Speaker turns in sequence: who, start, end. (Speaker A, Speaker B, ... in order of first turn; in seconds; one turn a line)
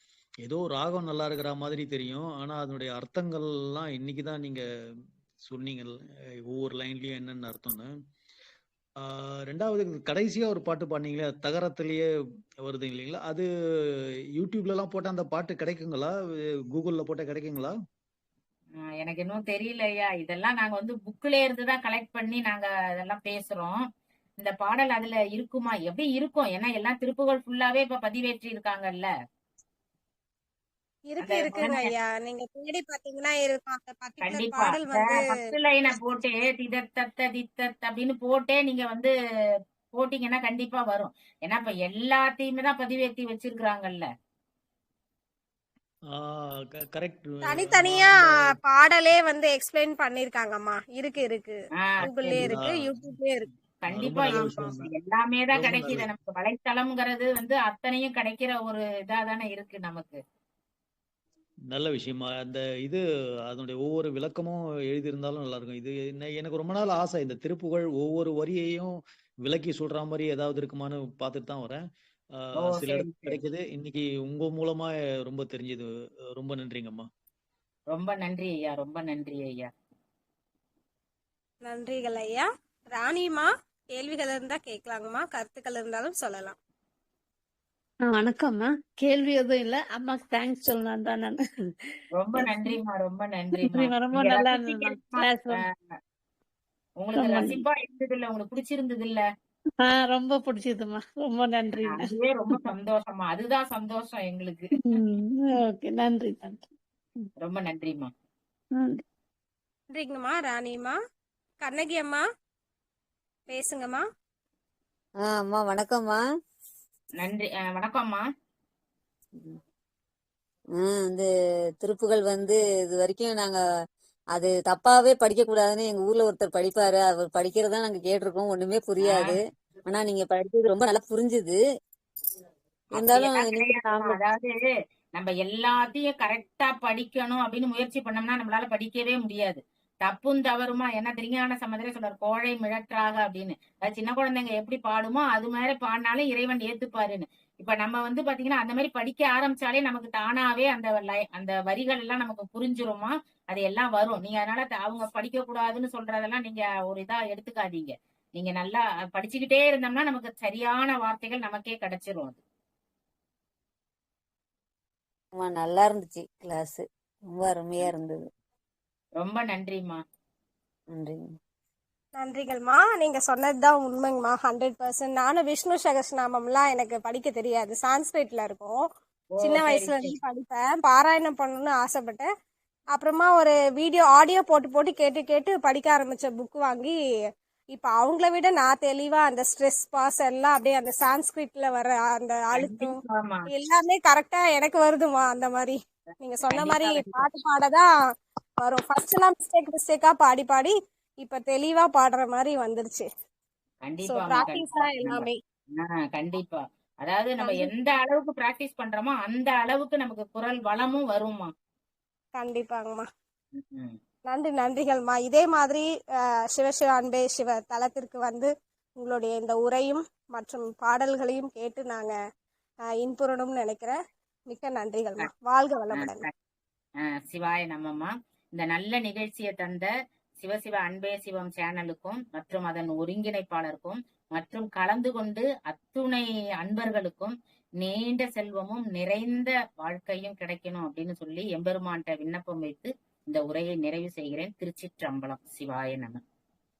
Speaker A: 0.4-4.6
Speaker A: 5.4-5.9
Speaker A: 6.5-7.9
Speaker A: 9.0-12.0
Speaker A: 12.6-13.4
Speaker A: 14.3-16.1
Speaker A: 16.7-17.7
Speaker B: 18.8-23.8
Speaker B: 24.4-29.1
Speaker C: 31.1-35.4
Speaker B: 31.2-31.9
Speaker B: 34.2-39.1
Speaker B: 39.9-44.1
Speaker A: 46.1-48.5
Speaker C: 47.4-53.5
Speaker B: 51.8-52.5
Speaker A: 52.0-53.2
Speaker B: 53.8-60.2
Speaker A: 53.9-54.9
Speaker C: 54.3-54.7
Speaker A: 55.5-56.1
Speaker A: 61.7-71.8
Speaker A: 72.4-77.1
Speaker B: 72.6-73.4
Speaker B: 77.9-79.7
Speaker C: 81.6-86.5
Speaker D: 88.0-91.4
Speaker B: 92.2-95.9
Speaker D: 92.3-92.7
Speaker D: 93.6-95.6
Speaker B: 97.0-99.2
Speaker D: 97.1-97.6
Speaker D: 99.8-102.6
Speaker B: 101.8-104.7
Speaker D: 104.8-106.7
Speaker B: 107.4-108.1
Speaker D: 108.8-109.0
Speaker C: 109.9-111.0
Speaker C: 111.6-112.2
Speaker C: 113.5-114.0
Speaker E: 115.2-116.2
Speaker B: 117.2-118.2
Speaker E: 120.8-121.3
Speaker E: 121.8-123.6
Speaker E: 124.3-131.6
Speaker B: 129.0-129.4
Speaker E: 132.9-134.2
Speaker B: 132.9-134.5
Speaker B: 135.2-162.4
Speaker E: 165.3-168.2
Speaker B: 169.2-170.0
Speaker E: 170.9-171.3
Speaker C: 172.1-178.8
Speaker B: 179.3-180.2
Speaker C: 179.4-182.3
Speaker C: 182.9-186.9
Speaker C: 187.7-192.9
Speaker B: 192.5-193.5
Speaker C: 193.5-197.8
Speaker B: 196.5-197.3
Speaker C: 198.6-203.1
Speaker B: 203.8-211.5
Speaker C: 204.0-205.4
Speaker C: 207.4-207.7
Speaker C: 212.3-213.0
Speaker B: 213.6-214.0
Speaker C: 214.2-215.8
Speaker C: 216.5-222.1
Speaker C: 223.0-226.2
Speaker B: 225.9-226.3
Speaker B: 227.3-246.2